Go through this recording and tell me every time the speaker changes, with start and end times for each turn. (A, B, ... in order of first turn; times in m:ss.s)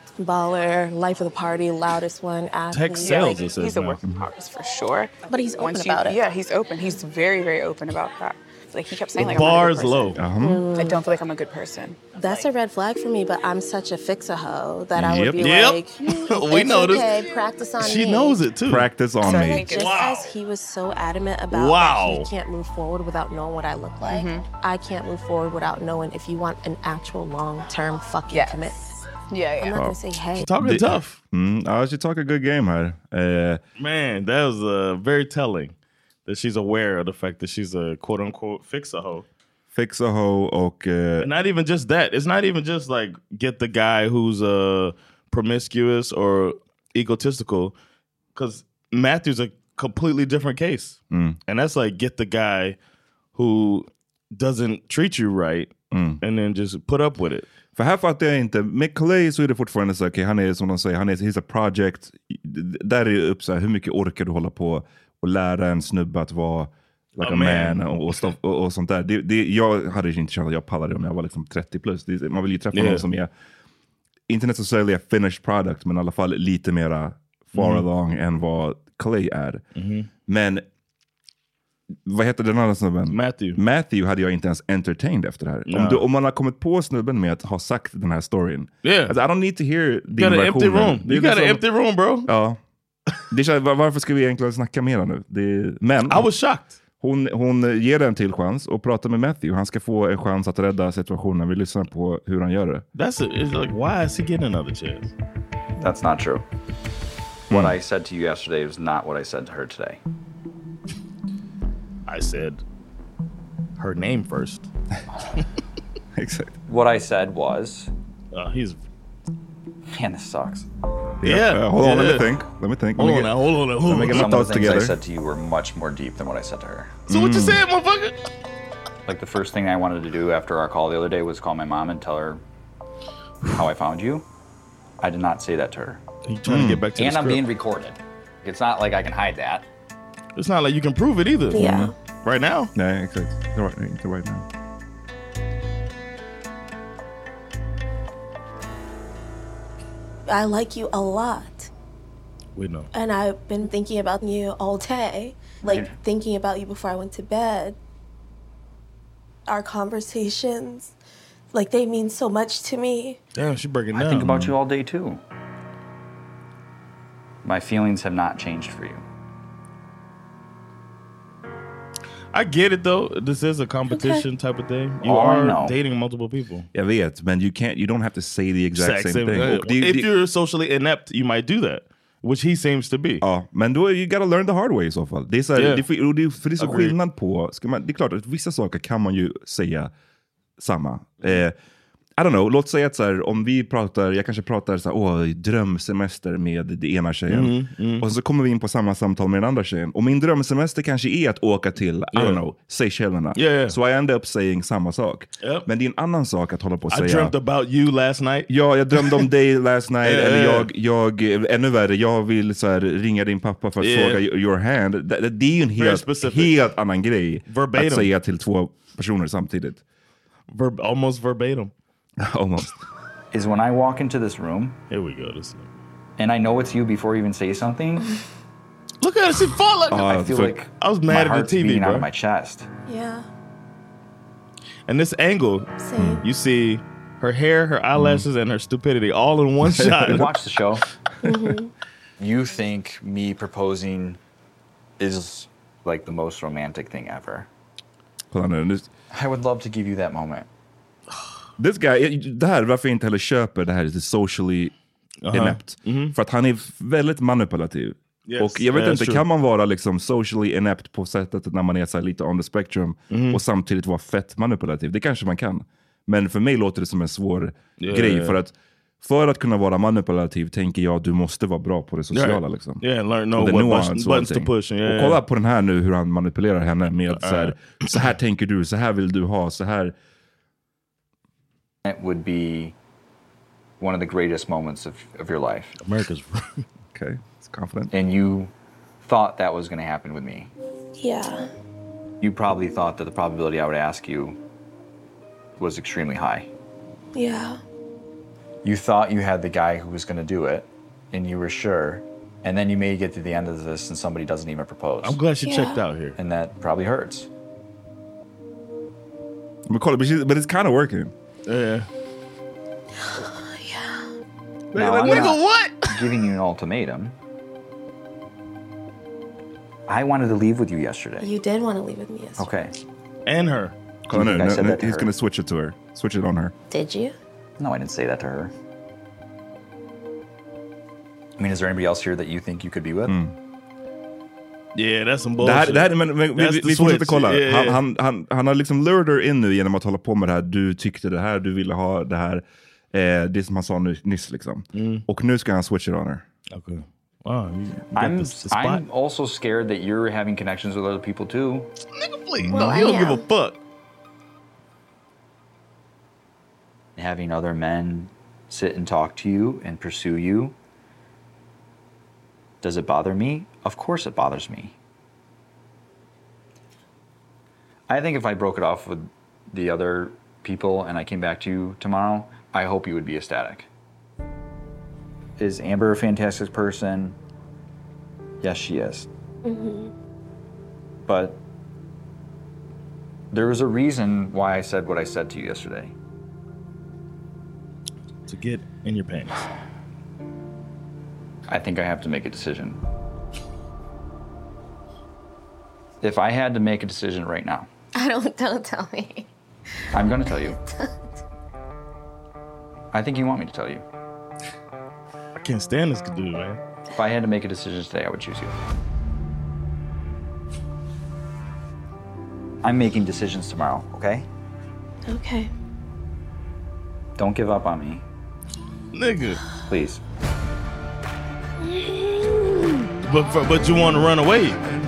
0:00.2-0:03.4 A
0:02.7-0:04.0 B
0:03.0-0:10.2 C
0:05.3-0:06.2 A
0:09.2-0:10.2 B
0:10.2-0:10.7 D
0:10.4-0:11.0 A
0:10.7-0:12.4 C
0:12.2-0:18.4 A
0:15.0-0:15.5 D
0:15.4-0:17.2 B
0:17.8-0:18.9 B
0:18.7-0:19.6 D
0:19.2-0:29.0 A
0:19.2-0:20.0 C
0:19.6-0:20.3 B
0:21.5-0:22.3 B
0:24.1-0:24.4 C
0:28.3-0:29.8 C
0:29.6-0:30.5 A
0:30.4-0:31.2 B
0:30.6-0:33.6 D
0:33.8-0:35.7 B
0:36.3-0:39.3 B
0:39.7-0:41.3 D
0:41.2-0:47.8 B
0:48.4-0:52.8 B
0:51.1-0:51.4 D
0:53.4-0:57.5 B
0:55.9-0:56.2 D
0:57.8-1:13.3 D
1:07.2-1:07.9 B
1:12.7-1:13.0 B
1:14.3-1:19.6 D
1:17.5-1:17.8 B
1:19.8-1:20.1 B
1:20.3-1:20.6 D
1:22.1-1:31.6 D
1:23.1-1:23.6 B
1:25.7-1:26.0 B
1:28.8-1:29.2 B
1:30.1-1:32.3 B
1:32.3-1:32.6 D
1:33.3-1:36.3 D
1:36.1-1:36.8 B
1:37.0-1:42.8 D
1:43.0-1:45.1 B
1:45.8-1:46.4 E
1:47.5-1:47.8 D
1:47.5-1:50.0 E
1:52.1-1:52.6 B
1:53.8-1:54.7 B
1:56.2-1:56.6 D
1:56.7-1:57.9 E
1:58.3-1:58.8 B
1:59.9-2:00.7 E
2:01.2-2:05.0 D
2:01.2-2:02.3 B
2:03.0-2:04.5 B
2:04.0-2:07.0 E
2:07.1-2:07.6 D
2:07.1-2:08.2 B
2:09.1-2:12.4 E
2:13.5-2:14.3 E
2:15.0-2:16.0 E
2:16.3-2:17.4 B
2:16.5-2:16.8 D
2:17.0-2:19.7 E
2:20.4-2:22.7 B
2:21.5-2:21.9 A
2:21.5-2:21.9 D
2:22.8-2:24.5 D
2:30.3-2:31.7 A
2:32.6-2:32.9 B
2:32.9-2:37.8 A
2:35.6-2:35.9 E
2:39.5-2:40.9 A
2:41.5-2:43.2 A
2:43.4-2:44.5 B
2:43.9-2:45.2 E
2:47.4-2:49.0 E
2:52.3-2:56.7 B
2:53.9-2:54.2 A
2:55.0-2:55.8 E
2:56.7-3:00.1 D
2:58.8-3:03.2 B
3:03.2-3:09.9 D
3:05.6-3:05.8 B
3:06.6-3:07.0 B
3:10.6-3:11.5 D
3:12.2-3:27.3 D
3:17.3-3:18.1 B
3:22.1-3:22.4 B
3:23.4-3:23.8 B
3:26.9-3:29.3 B
3:28.5-3:39.8 D
3:30.0-3:30.7 B
3:33.8-3:34.2 B
3:35.8-3:36.5 B
3:37.5-3:38.1 B
3:40.5-3:41.7 B
3:42.2-3:42.8 D
3:43.3-3:44.8 E
3:44.9-3:45.7 B
3:46.2-3:48.2 E
3:49.0-3:50.1 B
3:49.9-3:50.6 D
3:49.9-3:52.7 E
3:50.8-3:52.1 B
3:52.9-3:53.3 A
3:54.9-3:55.7 B
3:55.8-3:56.2 A
3:56.0-3:56.2 D
3:56.2-4:00.3 B
3:58.0-3:58.3 D
3:59.6-4:00.3 D
4:00.1-4:00.8 E
4:01.2-4:01.7 A
4:02.2-4:04.2 E
4:05.0-4:07.5 E
4:08.3-4:08.9 D
4:09.1-4:10.5 E
4:11.6-4:14.7 D
4:15.2-4:16.2 B
4:15.3-4:32.8 D
4:18.3-4:19.2 B
4:23.1-4:23.4 B
4:27.8-4:28.4 B
4:32.1-4:35.2 B
4:33.4-4:40.0 D
4:37.2-4:37.6 B
4:41.8-4:42.8 E
4:43.8-4:45.8 E
4:45.8-4:46.6 B
4:46.9-4:47.9 D
4:47.9-4:50.5 E
4:51.0-4:51.5 A
4:52.2-4:54.4 E
4:55.6-4:56.5 E
4:57.2-4:57.6 A
4:58.6-5:05.2 E
5:05.0-5:06.2 B
5:05.4-5:05.8 A
5:06.2-5:07.3 E
5:09.7-5:11.1 D
5:11.5-5:11.9 B
5:13.0-5:14.1 A
5:14.7-5:15.4 D
5:14.8-5:17.2 E
5:14.8-5:16.1 B
5:19.9-5:21.3 E
5:21.2-5:22.5 A
5:22.4-5:22.7 E
5:23.3-5:23.8 B
5:24.1-5:26.5 D
5:24.1-5:25.1 E
5:26.7-5:27.2 A
5:27.6-5:28.5 E
5:31.4-5:33.2 E
5:33.1-5:33.3 D
5:34.8-5:37.8 B
5:35.4-5:46.2 D
5:44.8-5:45.0 B
5:46.5-5:48.8 B
5:48.0-5:51.7 E
5:52.0-5:53.6 B
5:52.4-5:52.9 D
5:52.5-5:53.2 A
5:57.0-6:00.6 E
6:02.6-6:04.8 E
6:07.9-6:13.7 E
6:15.4-6:17.2 E
6:18.4-6:19.1 E
6:19.4-6:19.9 A
6:21.0-6:21.4 E
6:23.3-6:25.9 E
6:28.3-6:29.4 B
6:31.5-6:32.8 E
6:36.0-6:37.7 E
6:37.9-6:39.3 A
6:39.9-6:40.6 E
6:40.1-6:40.9 A
6:42.9-6:43.8 E
6:45.4-6:46.6 B
6:46.9-6:48.6 E
6:52.6-6:54.3 E
6:55.1-6:55.5 A
6:57.2-6:58.0 E
6:58.9-6:59.4 B
6:59.7-7:00.0 E
7:01.6-7:02.8 A
7:03.0-7:04.6 B